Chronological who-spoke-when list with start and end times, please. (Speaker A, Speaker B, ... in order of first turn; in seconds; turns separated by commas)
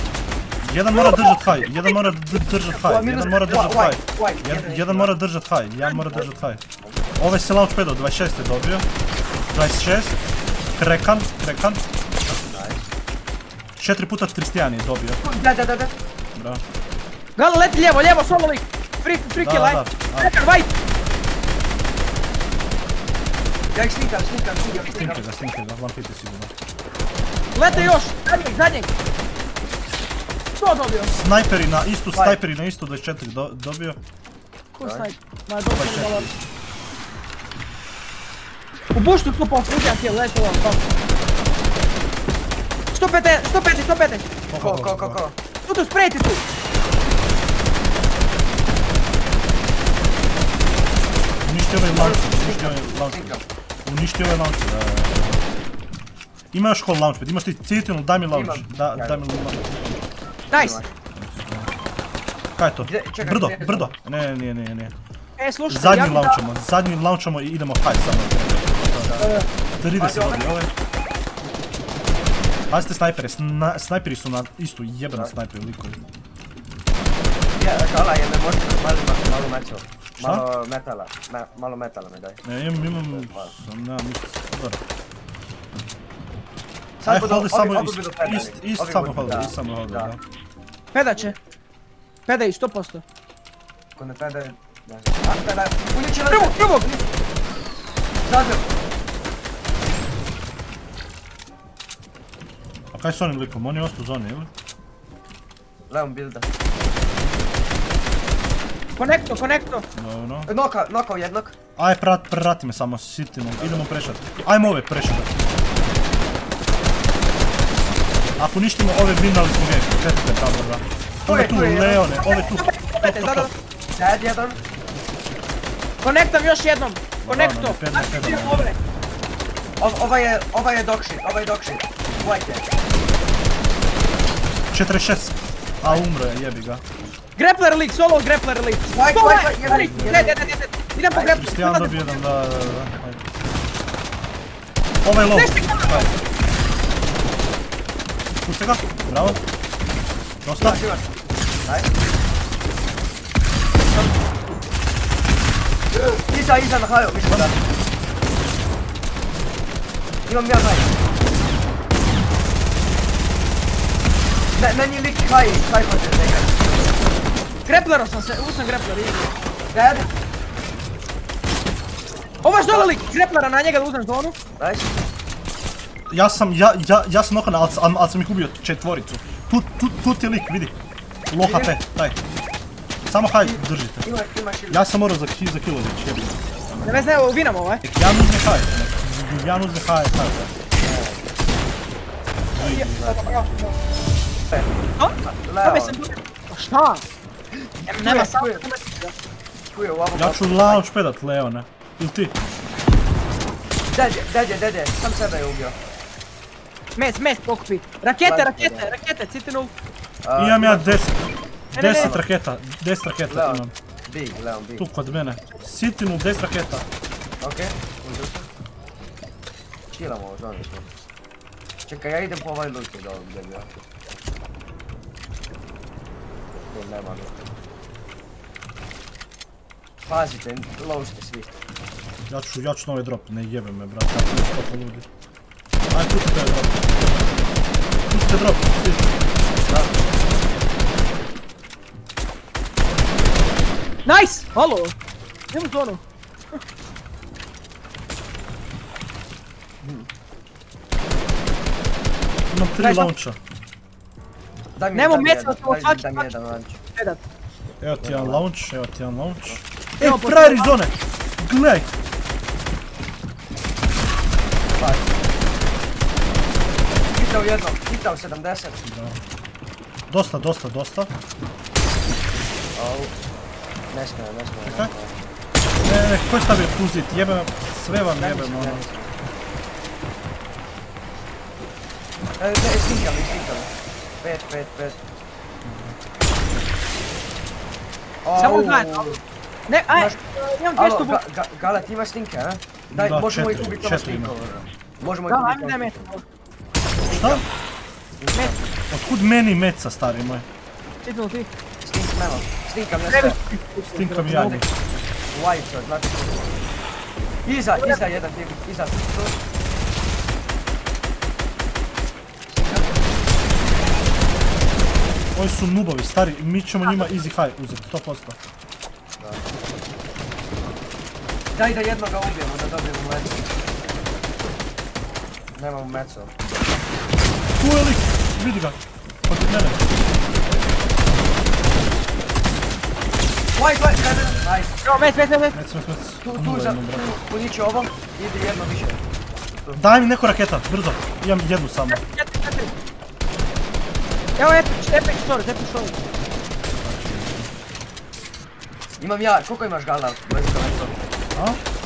Speaker A: 0.6-6.6, Speaker B: 2.7-5.1, Speaker B: 5.9-6.3, Speaker A: 7.2-8.9, Speaker A: 9.5-10.2, Speaker A: 10.7-11.8, Speaker B: 12.2-12.8, Speaker A: 13.8-15.2, Speaker B: 15.2-15.9, Speaker A: 16.3-16.6, Speaker C: 17.4-20.7, Speaker A: 19.4-20.3, Speaker B: 23.7-25.3, Speaker A: 24.9-26.5, Speaker C: 27.5-28.9, Speaker C: 30.5-31.1, Speaker A: 31.1-34.0, Speaker C: 34.7-36.3, Speaker B: 34.8-35.1, Speaker A: 35.8-36.4, Speaker C: 38.9-40.8, Speaker C: 42.9-44.2, Speaker A: 44.5-45.2, Speaker B: 44.5-45.4, Speaker C: 45.6-46.4, Speaker A: 51.4-53.3, Speaker B: 51.9-53.4, Speaker A: 53.8-55.4, Speaker A: 56.5-59.9, Speaker B: 58.3-59.3, Speaker C: 60.5-60.8, Speaker B: 60.5-60.9, Speaker A: 61.1-61.7, Speaker A: 62.6-64.9, Speaker B: 62.8-63.9, Speaker C: 65.4-66.4, Speaker A: 65.7-69.2, Speaker B: 69.0-70.5, Speaker A: 69.8-70.7, Speaker A: 72.7-76.0, Speaker B: 77.6-83.5, Speaker A: 82.4-84.8, Speaker B: 87.0-90.2, Speaker A: 87.0-90.2, Speaker C: 90.9-91.3, Speaker C: 92.3-93.0, Speaker B: 94.0-97.0, Speaker C: 96.3-96.9, Speaker B: 98.2-98.7, Speaker A: 102.9-104.5, Speaker B: 105.9-106.5, Speaker C: 109.0-109.8, Speaker A: 109.9-110.5, Speaker B: 110.5-111.5, Speaker A: 111.8-115.3, Speaker B: 113.6-114.2, Speaker A: 118.4-123.5, Speaker B: 121.3-122.2, Speaker C: 122.2-123.5, Speaker B: 124.0-124.6, Speaker C: 126.0-128.8, Speaker A: 127.2-128.7, Speaker B: 129.8-132.7, Speaker A: 134.7-136.8, Speaker C: 137.4-142.2, Speaker B: 138.9-140.6, Speaker A: 139.6-140.3, Speaker B: 141.1-141.4, Speaker A: 141.4-143.2, Speaker A: 145.0-146.1, Speaker C: 145.3-146.1, Speaker A: 148.4-149.4, Speaker A: 150.4-150.8, Speaker B: 150.6-151.1, Speaker B: 151.6-151.9, Speaker B: 153.8-154.1, Speaker B: 156.2-157.6, Speaker B: 160.2-160.9, Speaker B: 164.5-166.6, Speaker C: 167.7-169.3, Speaker B: 169.7-170.1, Speaker C: 172.4-174.3, Speaker B: 174.6-174.9, Speaker A: 176.1-180.8, Speaker A: 181.3-182.2, Speaker B: 181.4-181.7, Speaker A: 183.0-184.0, Speaker B: 183.4-184.8, Speaker A: 184.7-186.4, Speaker C: 186.8-187.8, Speaker A: 187.8-190.5, Speaker B: 190.8-191.3, Speaker A: 192.5-193.3, Speaker C: 192.6-193.7, Speaker B: 192.8-193.5, Speaker C: 195.0-197.0, Speaker B: 195.2-196.0, Speaker B: 197.7-198.6, Speaker C: 197.9-199.1, Speaker B: 199.7-200.8, Speaker A: 200.1-202.3, Speaker B: 203.9-205.8, Speaker C: 206.9-209.7, Speaker B: 208.2-208.9, Speaker B: 210.2-211.1, Speaker A: 210.4-211.2, Speaker A: 211.7-213.7, Speaker C: 211.7-212.1, Speaker B: 211.8-212.2, Speaker B: 213.3-214.8, Speaker A: 214.8-216.8, Speaker B: 217.4-218.5, Speaker B: 219.9-220.9, Speaker B: 221.8-223.7, Speaker B: 226.7-227.4, Speaker B: 230.0-231.6, Speaker A: 232.3-235.1, Speaker A: 235.9-237.3, Speaker A: 238.1-239.1, Speaker B: 239.7-240.0, Speaker C: 244.1-244.9, Speaker C: 245.5-246.0, Speaker B: 249.8-250.1, Speaker A: 252.5-253.4, Speaker C: 252.8-253.1, Speaker B: 254.8-256.8, Speaker C: 254.9-256.2, Speaker A: 257.8-261.9, Speaker B: 258.0-258.4, Speaker C: 260.0-260.7, Speaker B: 264.8-265.1, Speaker B: 267.1-268.8, Speaker A: 268.8-269.2, Speaker A: 270.1-271.1, Speaker B: 272.8-273.1, Speaker B: 273.9-275.1, Speaker A: 274.6-274.9, Speaker A: 275.8-278.8, Speaker B: 278.1-279.1, Speaker B: 282.4-283.7, Speaker B: 284.2-285.0, Speaker A: 285.6-285.9, Speaker B: 288.2-289.2, Speaker C: 288.4-289.1, Speaker C: 289.7-291.2, Speaker B: 289.9-290.2, Speaker B: 290.8-296.2, Speaker A: 292.9-294.3, Speaker C: 295.3-296.2, Speaker A: 297.1-297.4, Speaker B: 297.1-297.4, Speaker B: 298.2-298.7, Speaker A: 298.9-300.4, Speaker C: 301.0-301.5, Speaker B: 301.8-303.4, Speaker C: 303.1-304.4, Speaker A: 303.9-304.7, Speaker B: 304.2-304.6, Speaker B: 305.3-306.5, Speaker B: 307.4-309.3, Speaker B: 312.5-312.9, Speaker A: 315.3-318.4, Speaker B: 321.5-323.4, Speaker B: 325.5-326.3, Speaker A: 327.6-329.9, Speaker B: 333.5-334.8, Speaker C: 334.8-335.5, Speaker A: 335.5-337.1, Speaker B: 336.2-339.0, Speaker A: 339.7-342.0, Speaker C: 341.9-342.7, Speaker C: 344.4-345.9, Speaker A: 346.7-347.5, Speaker B: 349.0-350.9